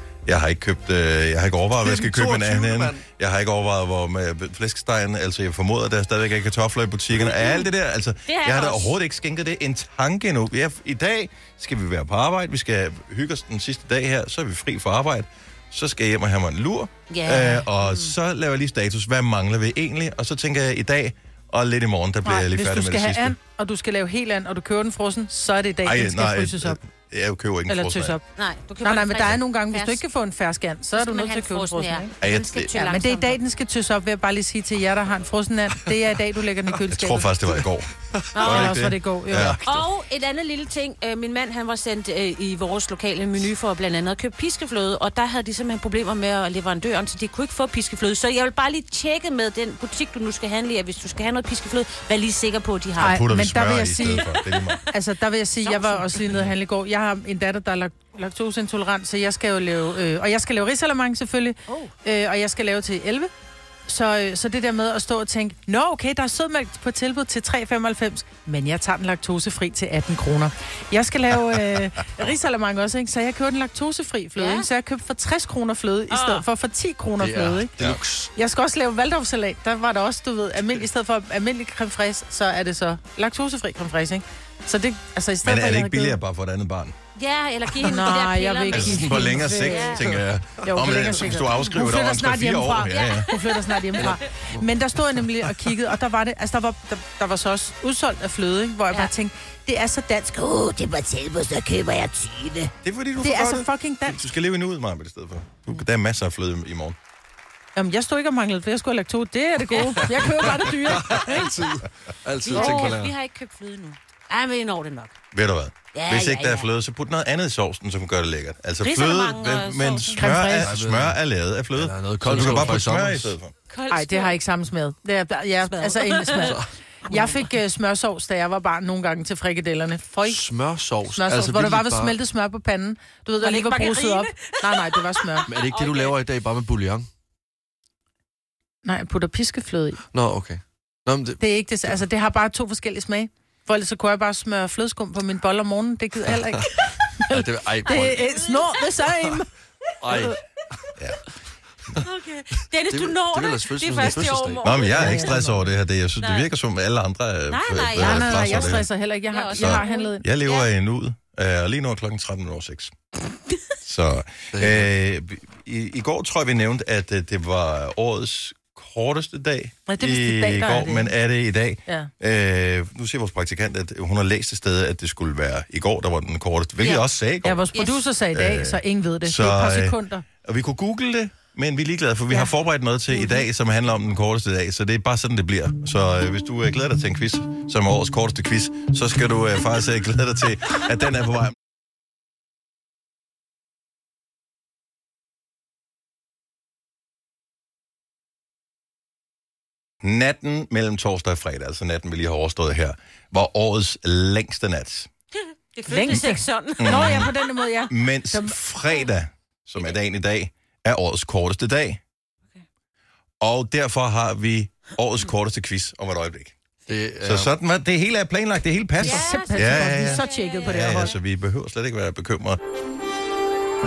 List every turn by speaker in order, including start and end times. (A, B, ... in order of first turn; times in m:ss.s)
0:00.3-0:23.4 A
0:01.8-0:03.0 B
0:08.3-0:09.0 C
0:17.1-0:18.1 C
0:22.2-0:26.8 D
0:25.8-0:28.2 A
0:27.7-0:28.2 D
0:28.4-0:30.0 C
0:28.8-0:32.1 D
0:30.9-0:33.4 C
0:32.2-0:32.8 A
0:32.8-0:37.3 D
0:36.9-0:39.6 A
0:38.2-0:38.8 B
0:38.4-0:38.8 C
0:38.4-0:39.6 D
0:39.6-0:53.2 C
0:53.0-0:54.8 A
0:53.0-0:54.3 D
0:54.0-0:54.8 C
0:54.9-1:03.3 D
0:55.6-0:56.5 C
1:01.7-1:01.9 C
1:03.9-1:17.7 D
1:14.4-1:14.7 C
1:16.1-1:16.4 C
1:17.2-1:18.3 B
1:18.4-1:26.2 D
1:25.4-1:27.0 A
1:27.2-1:30.1 C
1:27.8-1:30.0 D
1:28.7-1:33.3 A
1:30.6-1:41.1 D
1:32.9-1:34.1 C
1:34.0-1:34.6 B
1:40.7-1:42.7 C
1:42.8-1:47.0 A
1:43.2-1:44.3 D
1:47.8-1:51.5 D
1:50.4-1:53.1 B
1:52.4-1:55.2 C
1:55.3-2:03.5 A
1:55.9-1:56.7 C
1:58.8-2:00.2 C
2:00.2-2:00.7 D
2:00.6-2:01.2 B
2:01.8-2:03.4 B
2:03.7-2:04.4 C
2:03.9-2:06.6 D
2:05.6-2:07.5 C
2:07.1-2:10.4 D
2:10.3-2:12.2 B
2:11.2-2:15.5 D
2:13.4-2:16.2 C
2:15.5-2:17.1 B
2:18.8-2:20.0 D
2:20.1-2:22.0 B
2:21.4-2:29.5 D
2:27.3-2:28.3 B
2:27.9-2:28.8 C
2:30.0-2:30.4 B
2:32.0-2:35.4 C
2:32.9-2:35.1 B
2:34.6-2:38.9 A
2:34.9-2:35.7 D
2:36.2-2:36.5 C
2:37.5-2:40.7 C
2:38.0-2:40.3 D
2:39.6-2:42.9 A
2:43.8-2:57.6 A
2:44.5-2:44.9 B
2:49.9-2:51.1 D
2:56.8-2:57.1 C
2:57.4-3:00.3 D
2:57.8-2:58.0 C
2:58.3-3:11.6 A
3:20.0-3:25.1 A
3:25.8-3:27.4 C
3:25.9-3:28.6 D
3:26.1-3:27.3 A
3:27.9-3:32.0 A
3:33.4-3:36.6 A
3:36.9-3:37.5 B
3:37.2-3:42.6 A
3:39.0-3:41.1 D
3:39.0-3:41.2 C